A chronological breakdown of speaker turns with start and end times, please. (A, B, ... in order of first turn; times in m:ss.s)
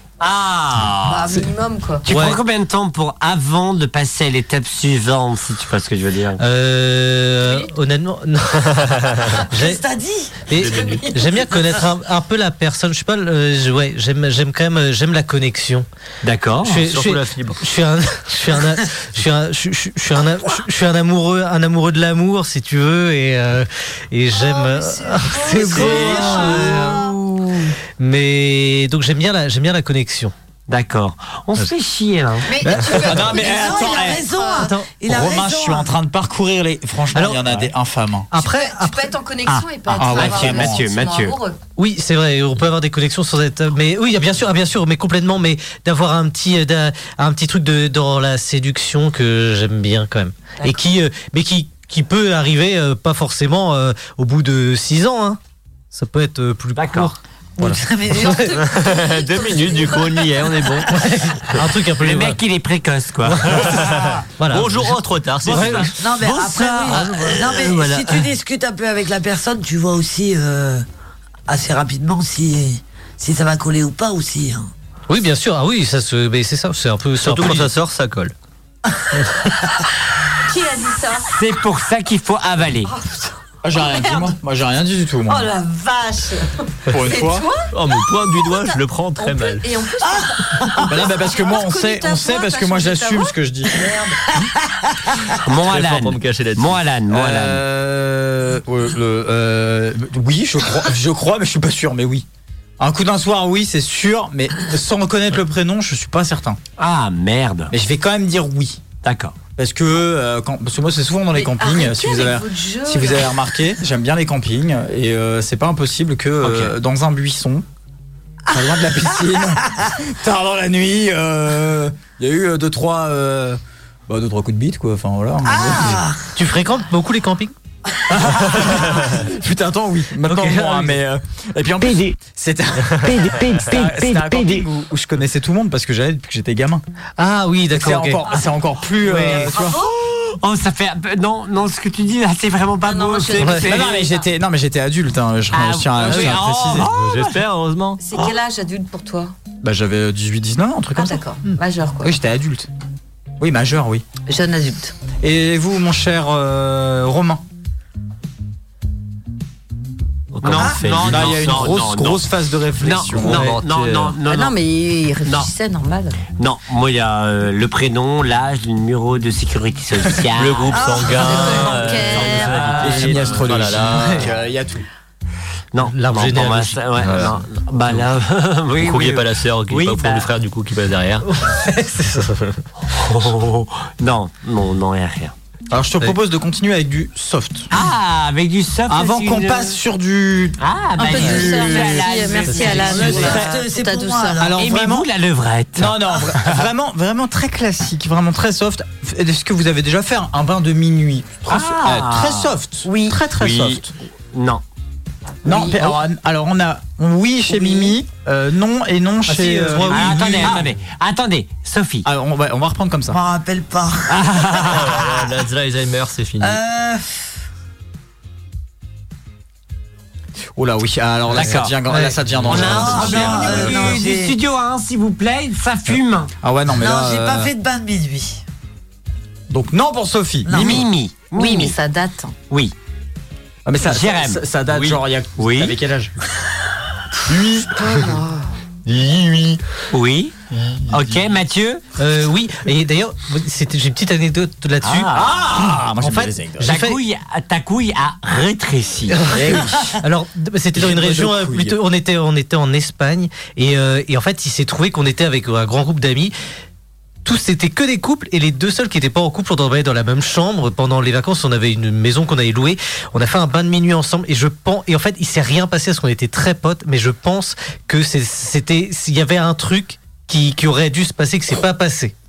0:00.2-0:01.4 A
0:01.0-0:02.0 B
0:02.0-0:06.4 A
0:02.1-0:02.4 C
0:06.4-0:09.8 C
0:07.4-0:07.7 B
0:09.5-0:10.5 D
0:10.5-0:15.9 C
0:10.6-0:11.2 E
0:16.2-0:16.9 A
0:16.6-0:30.3 C
0:16.8-0:17.6 E
0:24.8-0:27.1 B
0:25.6-0:26.6 F
0:30.7-0:32.5 A
0:32.5-0:34.7 B
0:32.6-0:33.2 C
0:32.8-0:34.3 F
0:33.0-0:35.9 D
0:34.6-0:34.9 C
0:35.1-0:38.3 F
0:37.1-0:37.7 C
0:38.3-0:39.6 C
0:38.4-0:41.6 B
0:39.9-0:40.9 F
0:40.0-0:41.4 A
0:41.8-0:55.4 C
0:55.9-0:57.8 C
0:56.8-0:57.1 A
0:57.6-0:58.6 D
0:58.1-1:00.7 B
0:58.6-1:01.1 E
1:00.9-1:02.4 C
1:02.0-1:04.0 A
1:03.3-1:03.6 C
1:03.6-1:05.9 E
1:04.4-1:06.0 C
1:05.5-1:08.2 A
1:06.0-1:10.8 D
1:11.5-1:14.7 D
1:15.1-1:17.8 C
1:17.2-1:18.3 E
1:20.5-1:21.3 B
1:21.3-1:22.9 A
1:22.9-1:24.3 B
1:23.6-1:25.5 F
1:25.3-1:27.7 B
1:26.9-1:27.5 F
1:27.7-1:29.6 E
1:28.4-1:33.3 B
1:30.0-1:30.9 D
1:30.9-1:34.1 F
1:35.4-1:37.6 A
1:35.6-1:36.8 E
1:37.1-1:42.3 F
1:42.8-1:46.6 F
1:46.8-1:47.7 A
1:47.7-1:48.8 F
1:49.0-1:49.4 A
1:49.6-1:57.7 F
1:51.4-1:53.3 B
1:58.5-2:06.1 F
2:05.4-2:06.3 D
2:06.4-2:07.5 C
2:08.1-2:16.8 F
2:14.2-2:14.5 E
2:17.2-2:18.2 C
2:17.7-2:19.8 F
2:19.0-2:23.9 A
2:19.3-2:19.9 B
2:22.8-2:24.3 B
2:23.5-2:26.9 F
2:25.5-2:27.4 A
2:26.2-2:28.0 E
2:28.0-2:29.3 B
2:29.6-2:31.2 F
2:31.0-2:32.1 B
2:32.0-2:32.7 F
2:33.4-2:34.1 F
2:34.3-2:35.0 B
2:35.2-2:37.4 F
2:40.3-2:41.6 E
2:40.4-2:42.2 A
2:40.9-2:43.5 F
2:42.8-2:44.6 A
2:43.1-2:44.2 E
2:44.3-2:46.2 B
2:45.2-2:45.5 A
2:46.4-2:53.3 A
2:50.3-2:54.3 E
2:50.7-2:52.8 B
2:52.7-2:54.8 F
2:53.9-2:54.2 C
2:55.7-3:00.3 A
2:55.8-2:57.0 C
2:57.0-2:57.4 E
2:58.7-3:01.3 E
3:01.3-3:02.4 C
3:02.9-3:05.3 A
3:05.7-3:07.7 F
3:07.7-3:09.8 A
3:08.9-3:13.4 F
3:10.6-3:13.5 A
3:11.0-3:14.4 B
3:12.8-3:14.6 D
3:14.4-3:15.1 F
3:14.6-3:16.6 A
3:15.8-3:23.9 F
3:21.5-3:23.8 A
3:24.3-3:24.6 A
3:25.4-3:30.7 F
3:25.5-3:25.9 A
3:29.3-3:30.6 C
3:29.8-3:32.0 A
3:32.0-3:33.2 F
3:33.1-3:34.8 D
3:34.1-3:35.1 A
3:34.6-3:36.6 E
3:36.4-3:37.2 D
3:40.6-3:44.0 F
3:41.3-3:41.7 A
3:41.9-3:42.2 C
3:42.4-3:46.3 A
3:42.5-3:44.4 D
3:46.4-3:47.5 F
3:46.8-3:48.4 D
3:49.5-3:50.9 F
3:50.5-3:50.8 D
3:50.5-3:51.7 A
3:51.4-3:52.3 B
3:53.7-3:56.1 F
3:53.8-3:54.4 A
3:55.4-3:55.8 A
3:57.3-3:58.1 F
3:57.8-3:58.5 B
3:58.9-3:59.6 F
3:59.9-4:00.4 A
4:00.9-4:01.8 A
4:02.0-4:05.2 C
4:04.8-4:05.3 A
4:05.1-4:06.8 F
4:06.0-4:07.0 C
4:06.6-4:09.2 A
4:09.2-4:16.3 C
4:09.3-4:09.9 F
4:10.8-4:11.8 F
4:17.2-4:32.2 C